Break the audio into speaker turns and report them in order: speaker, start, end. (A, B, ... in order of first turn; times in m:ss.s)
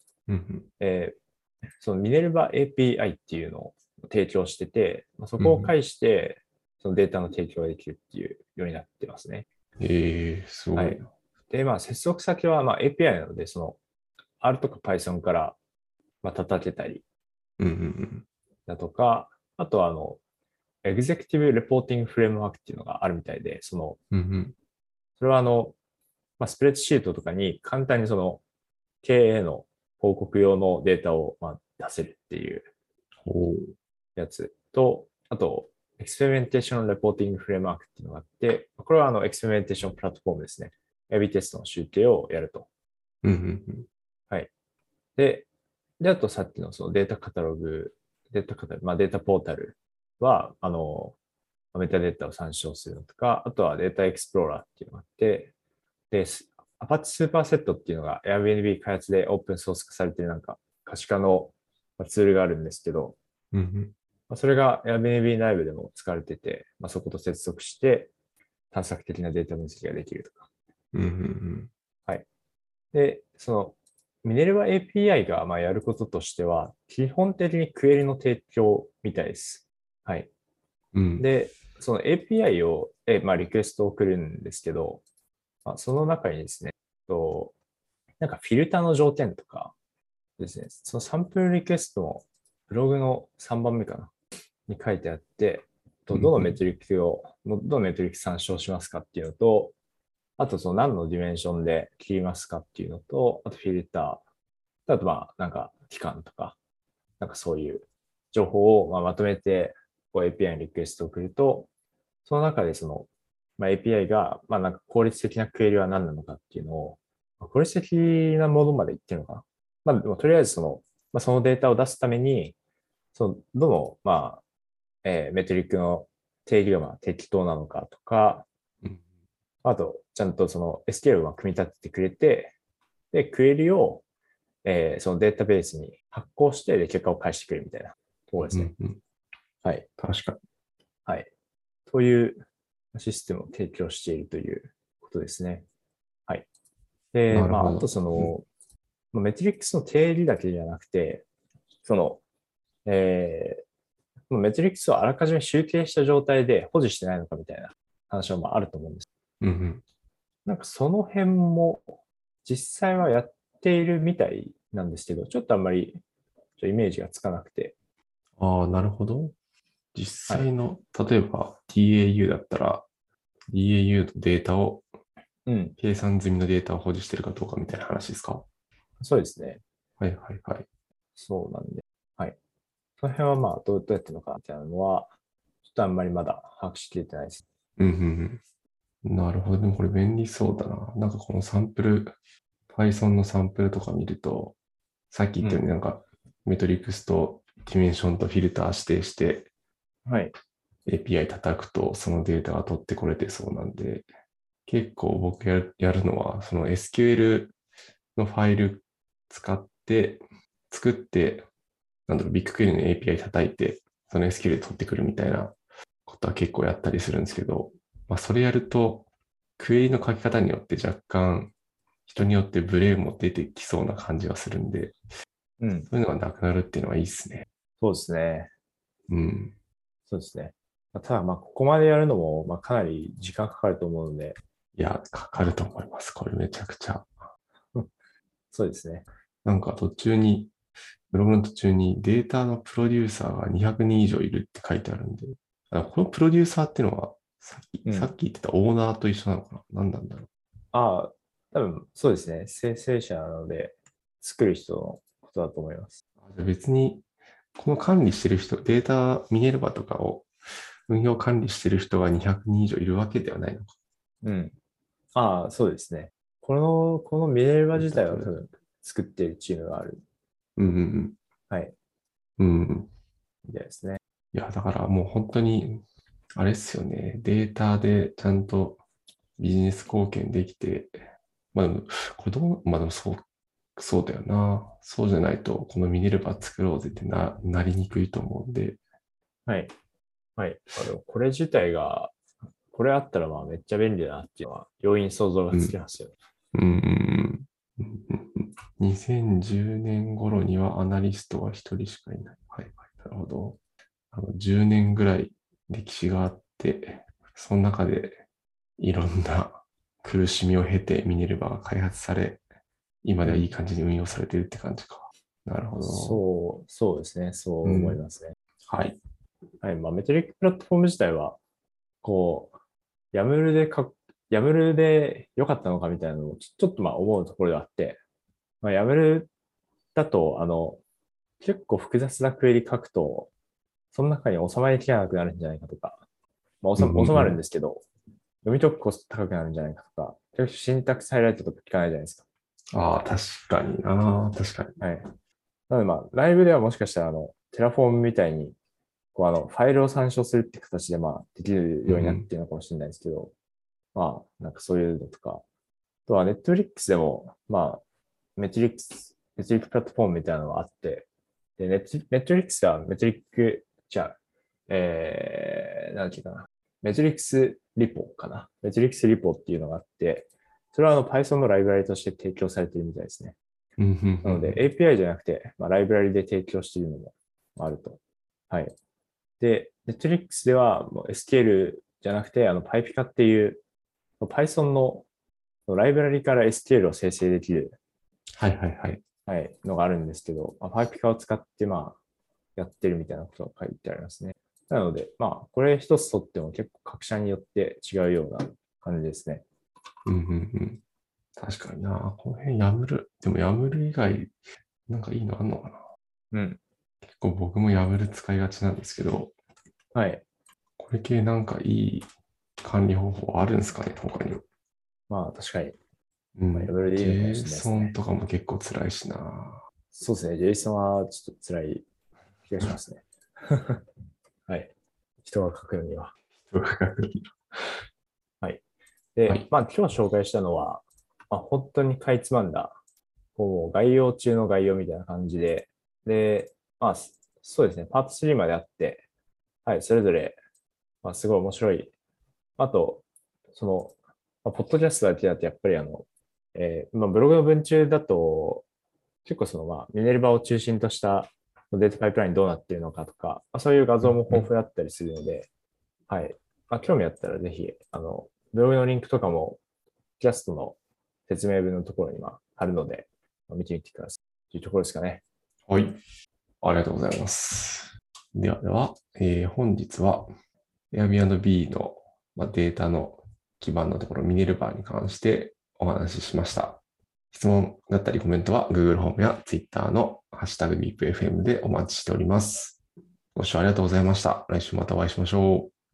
0:00.3-0:00.7 A
0:00.8-0:01.1 B
0:01.8-0:09.5 B
0:05.4-0:05.7 A
0:09.8-0:11.1 A
0:10.7-0:13.8 B
0:14.4-0:15.6 B
0:16.2-0:17.0 B
0:17.6-0:18.2 A
0:18.7-0:20.2 B
0:20.8-0:24.0 B
0:24.1-0:24.5 A
0:25.2-0:25.7 B
0:26.4-0:28.4 B
0:29.0-0:32.7 B
0:33.2-0:33.7 A
0:34.2-0:42.7 B
0:43.2-0:43.9 A
0:45.2-0:45.5 B
0:46.0-0:51.2 B
0:51.7-0:55.5 B
0:56.1-1:03.2 B
1:03.5-1:03.9 A
1:04.3-1:08.1 B
1:08.7-1:10.4 B
1:10.9-1:11.7 A
1:12.9-1:20.3 B
1:20.9-1:21.3 A
1:21.2-1:25.0 B
1:25.6-1:27.5 B
1:28.2-1:29.7 B
1:30.4-1:34.1 B
1:34.7-1:39.7 B
1:36.1-1:36.6 A
1:40.4-1:44.2 B
1:44.9-1:46.6 B
1:47.2-1:51.7 B
1:52.2-2:02.5 B
2:03.1-2:04.4 B
2:05.0-2:08.4 B
2:09.6-2:12.5 B
2:13.1-2:14.0 B
2:14.6-2:18.7 B
2:18.5-2:19.0 A
2:20.0-2:20.4 A
2:21.9-2:22.4 B
2:22.9-2:25.6 B
2:27.1-2:28.4 B
2:27.3-2:28.3 A
2:29.1-2:31.2 B
2:31.8-2:32.2 B
2:32.8-2:33.6 B
2:34.3-2:39.1 B
2:39.4-2:39.8 A
2:40.4-2:41.9 B
2:42.4-2:46.0 B
2:46.6-2:47.7 B
2:48.4-2:49.3 A
2:49.9-2:52.8 A
2:53.5-2:54.8 A
2:55.4-2:55.7 B
2:55.8-2:58.4 A
2:59.0-2:59.6 B
3:00.0-3:00.7 A
3:01.2-3:02.4 B
3:03.0-3:05.1 B
3:05.6-3:07.4 B
3:07.8-3:08.4 A
3:09.0-3:12.1 A
3:12.7-3:14.5 A
3:15.1-3:19.5 A
3:20.0-3:20.3 B
3:20.9-3:24.1 A
3:24.6-3:27.6 A
3:28.2-3:31.5 A
3:32.1-3:41.5 A
3:42.1-3:44.9 A
3:45.6-3:45.9 B
3:45.9-3:47.5 A
3:47.8-3:48.5 B
3:49.1-3:49.5 A
3:50.1-3:54.4 B
3:54.8-3:57.1 A
3:58.5-3:59.0 B
3:59.4-4:00.5 A
4:01.1-4:10.3 A
4:07.8-4:08.1 B
4:10.7-4:16.0 B
4:16.2-4:17.0 A
4:17.6-4:20.3 A
4:20.9-4:23.7 A
4:24.2-4:24.5 B
4:25.1-4:30.0 B
4:27.7-4:28.3 A
4:30.6-4:31.2 A
4:32.4-4:32.9 A
4:33.4-4:34.0 B
4:34.3-4:35.8 A
4:36.3-4:38.8 A
4:39.4-4:41.0 A
4:41.5-4:43.2 A
4:43.8-4:48.8 A
4:49.5-4:49.7 B
4:50.4-4:52.1 B
4:52.7-4:56.1 B
4:56.5-5:03.6 A
5:04.1-5:08.2 A
5:08.8-5:12.4 A
5:13.0-5:16.2 A
5:13.2-5:13.5 B
5:15.8-5:18.3 B
5:17.6-5:18.0 A
5:18.6-5:19.0 A
5:19.6-5:21.4 B
5:22.0-5:22.5 B
5:23.1-5:28.0 B
5:28.6-5:29.3 B
5:29.9-5:30.8 B
5:31.4-5:33.3 B
5:33.9-5:36.0 B
5:36.6-5:37.8 B
5:36.8-5:37.4 A
5:38.4-5:42.2 B
5:42.7-5:44.8 A
5:44.8-5:45.1 B
5:45.7-5:48.5 B
5:49.1-5:53.3 B
5:51.9-5:52.3 A
5:53.9-5:55.4 B
5:56.1-5:57.8 B
5:58.4-6:01.1 B
6:01.6-6:04.2 B
6:04.7-6:13.4 B
6:13.8-6:14.6 A
6:14.2-6:18.0 B
6:19.4-6:23.6 B
6:24.2-6:25.0 B
6:25.7-6:27.7 B
6:28.4-6:29.0 A
6:29.3-6:32.0 B
6:32.6-6:39.4 B
6:40.0-6:40.8 A
6:41.4-6:44.3 A
6:44.9-6:45.8 A
6:46.3-6:46.6 B
6:47.0-6:49.3 A
6:49.9-6:50.2 B
6:50.8-6:52.1 A
6:52.6-6:54.4 A
6:55.1-6:55.8 B
6:56.4-6:59.6 A
6:56.5-6:57.9 B
6:59.9-7:01.8 B
7:02.5-7:03.8 B
7:05.2-7:06.1 B
7:06.5-7:07.4 A
7:09.2-7:12.7 B
7:13.4-7:19.0 B
7:19.6-7:20.4 B
7:21.0-7:21.9 B
7:22.6-7:23.0 B
7:23.5-7:28.6 B
7:29.2-7:35.5 B
7:34.0-7:34.5 A
7:36.1-7:39.6 B
7:40.2-7:45.2 B
7:45.7-7:46.0 A
7:46.6-7:50.3 A
7:50.9-7:56.8 A
7:57.3-8:02.8 A
8:03.3-8:05.7 A